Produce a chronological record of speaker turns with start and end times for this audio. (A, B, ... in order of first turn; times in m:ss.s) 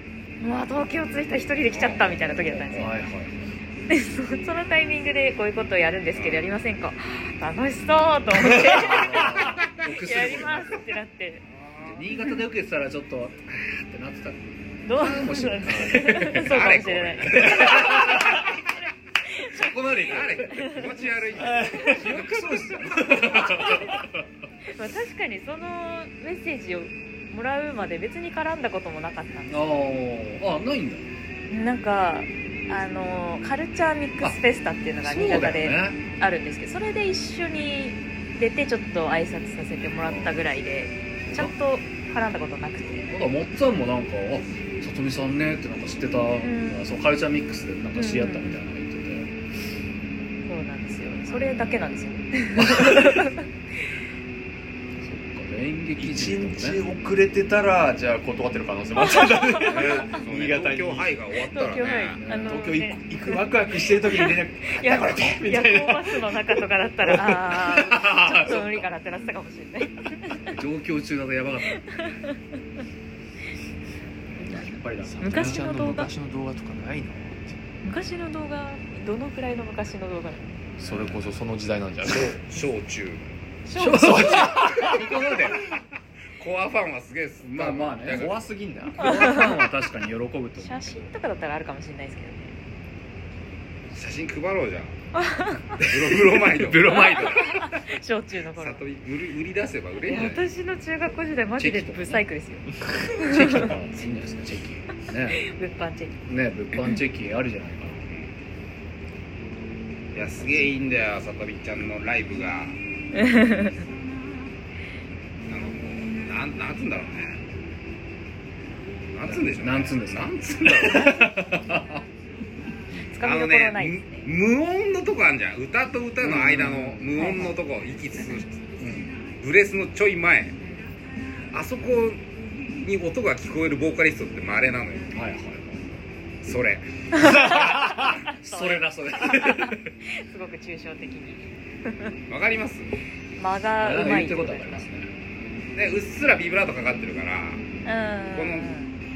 0:00.4-0:03.0 A
0:01.7-0:02.4 B
0:02.7-0:03.6 C
0:03.9-0:11.4 A
0:06.1-0:06.4 B
0:08.4-0:10.8 C
0:11.5-0:12.1 B
0:11.9-0:16.6 C
0:14.8-0:19.9 A
0:15.9-0:18.4 B
0:17.3-0:18.5 C
0:19.5-0:20.8 C
0:19.9-0:23.8 B
0:20.5-0:20.9 A
0:21.4-0:24.2 C
0:21.5-0:21.9 D
0:21.6-0:22.0 A
0:23.6-0:24.0 A
0:24.7-0:29.8 A
0:29.5-0:31.1 C
0:31.5-0:43.1 A
0:35.0-0:36.0 C
0:40.0-0:40.4 C
0:41.2-0:41.5 C
0:43.1-0:49.3 C
0:46.4-0:46.8 A
0:47.9-0:48.6 A
0:50.5-0:53.4 A
0:52.6-0:53.3 C
0:55.0-0:56.8 C
0:56.0-1:01.2 D
0:59.0-0:59.8 A
0:59.7-1:00.0 C
0:59.7-1:02.2 B
1:01.5-1:10.6 A
1:02.2-1:02.6 C
1:02.4-1:06.4 D
1:07.1-1:07.6 D
1:07.6-1:08.8 C
1:10.5-1:12.1 C
1:11.8-1:12.4 A
1:14.3-1:17.6 D
1:14.6-1:15.6 C
1:15.2-1:16.1 A
1:17.8-1:20.5 A
1:20.8-1:21.3 C
1:20.8-1:22.4 D
1:22.0-1:23.3 B
1:23.6-1:24.6 A
1:23.7-1:25.7 C
1:23.9-1:25.3 D
1:26.4-1:28.4 B
1:27.5-1:28.3 C
1:28.1-1:29.3 D
1:28.9-1:31.1 C
1:29.0-1:29.5 A
1:30.6-1:32.5 A
1:33.9-1:35.0 B
1:35.2-1:35.8 A
1:35.8-1:37.5 B
1:35.8-1:37.7 C
1:37.1-1:38.8 A
1:38.6-1:40.4 B
1:40.0-1:43.7 A
1:41.6-1:42.2 C
1:43.2-1:45.4 C
1:45.3-1:46.1 A
1:46.3-1:48.1 C
1:48.1-1:48.3 B
1:50.1-1:52.8 B
1:53.1-1:53.8 A
1:55.5-1:57.4 B
1:59.1-2:01.3 B
1:59.2-2:02.0 C
2:03.1-2:04.3 A
2:03.2-2:08.8 B
2:06.2-2:07.3 C
2:07.1-2:07.5 A
2:08.8-2:09.1 C
2:09.4-2:10.6 B
2:10.6-2:10.9 A
2:11.5-2:12.2 B
2:12.8-2:15.1 B
2:15.1-2:16.0 C
2:16.4-2:17.5 B
2:17.1-2:22.2 A
2:17.2-2:18.1 D
2:17.3-2:19.9 C
2:22.3-2:22.9 B
2:23.4-2:24.8 A
2:23.8-2:25.1 C
2:25.7-2:27.7 B
2:27.8-2:28.9 A
2:28.3-2:28.7 B